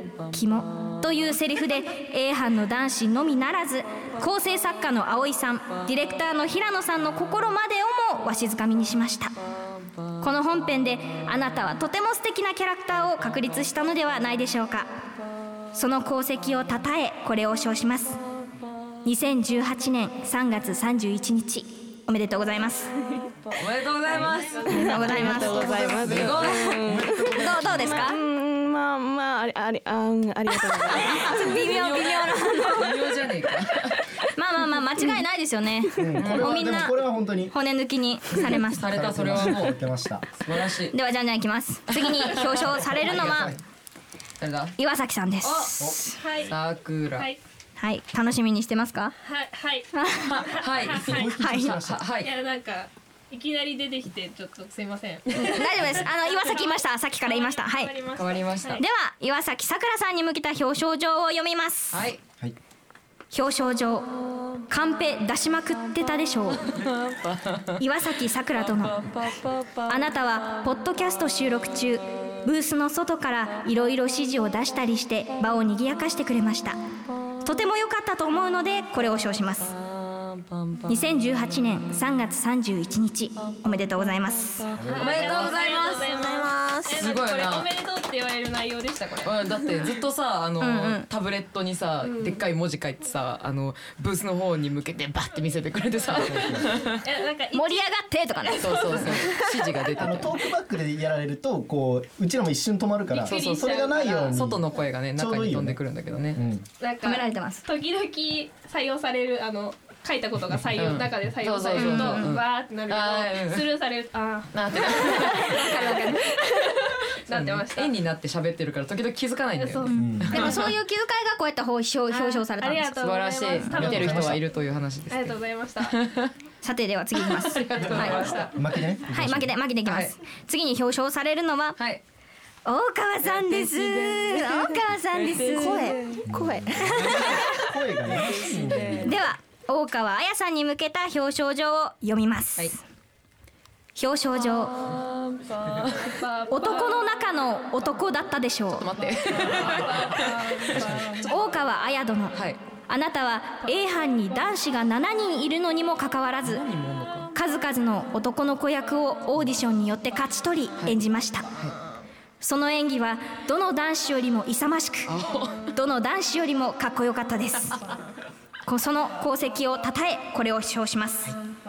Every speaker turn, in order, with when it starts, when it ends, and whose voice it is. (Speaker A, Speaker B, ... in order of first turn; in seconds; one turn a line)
Speaker A: 0.3-9.3
Speaker A: 10.2-14.9
Speaker A: 15.7-18.2
Speaker A: 19.1-22.9
Speaker B: 23.5-26.9
Speaker A: 24.7-25.8
Speaker C: 24.9-27.3
Speaker D: 26.0-28.0
Speaker A: 27.2-28.2
Speaker C: 28.0-31.3
Speaker A: 30.7-32.9
Speaker B: 31.5-34.0
Speaker A: 34.4-38.9
Speaker D: 36.0-37.5
Speaker B: 36.2-36.7
Speaker B: 38.6-39.8
Speaker D: 38.8-40.2
Speaker B: 40.4-41.0
Speaker A: 40.9-43.5
Speaker B: 41.9-43.5
Speaker D: 43.2-43.6
Speaker B: 44.4-44.7
Speaker A: 44.8-46.2
Speaker E: 45.5-46.5
Speaker B: 46.5-47.3
Speaker A: 47.8-49.1
Speaker E: 49.2-51.3
Speaker A: 49.9-50.5
Speaker B: 50.3-52.3
Speaker D: 50.9-52.0
Speaker A: 51.4-51.8
Speaker E: 52.2-58.8
Speaker A: 55.4-58.0
Speaker B: 58.1-58.8
Speaker A: 58.8-62.1
Speaker B: 61.9-62.2
Speaker A: 63.3-64.1
Speaker A: 64.7-66.7
Speaker B: 66.7-67.7
Speaker A: 67.8-69.0
Speaker B: 68.7-69.3
Speaker A: 69.9-76.8
Speaker A: 77.4-79.8
Speaker A: 80.9-84.7
Speaker D: 84.8-85.2
Speaker E: 84.9-89.8
Speaker B: 84.9-86.4
Speaker C: 86.3-86.9
Speaker B: 86.9-87.7
Speaker B: 89.2-97.0
Speaker A: 90.6-91.1
Speaker E: 92.0-92.4
Speaker D: 96.1-96.8
Speaker E: 96.2-97.8
Speaker A: 97.5-99.0
Speaker E: 98.5-99.5
Speaker B: 98.6-100.3
Speaker D: 99.9-104.6
Speaker E: 103.1-104.4
Speaker B: 103.2-106.4
Speaker D: 105.2-105.8
Speaker D: 106.3-106.7
Speaker E: 106.8-118.0
Speaker A: 107.0-107.7
Speaker B: 110.7-113.7
Speaker A: 111.8-112.3
Speaker B: 114.5-115.7
Speaker A: 115.5-116.2
Speaker B: 117.3-120.6
Speaker E: 119.6-120.6
Speaker D: 119.9-120.4
Speaker A: 120.3-123.0
Speaker E: 122.1-124.4
Speaker B: 122.9-126.3
Speaker D: 123.7-124.4
Speaker E: 125.1-126.0
Speaker A: 126.6-128.4
Speaker B: 127.2-128.6
Speaker E: 128.1-128.4
Speaker D: 128.5-129.5
Speaker A: 129.1-131.8
Speaker B: 129.8-130.2
Speaker B: 131.8-132.0
Speaker A: 132.7-136.0
Speaker B: 133.2-136.2
Speaker C: 135.5-137.3
Speaker D: 136.3-139.1
Speaker B: 138.1-139.2
Speaker A: 139.0-142.8
Speaker A: 144.0-144.8
Speaker B: 145.5-146.1
Speaker E: 146.1-147.0
Speaker A: 146.5-148.9
Speaker B: 148.8-151.1
Speaker E: 149.4-151.3
Speaker A: 151.2-156.6
Speaker B: 152.3-152.6
Speaker B: 156.4-157.3
Speaker A: 157.3-161.5
Speaker A: 162.4-165.1
Speaker B: 165.1-165.7
Speaker A: 165.7-167.8
Speaker A: 168.7-171.4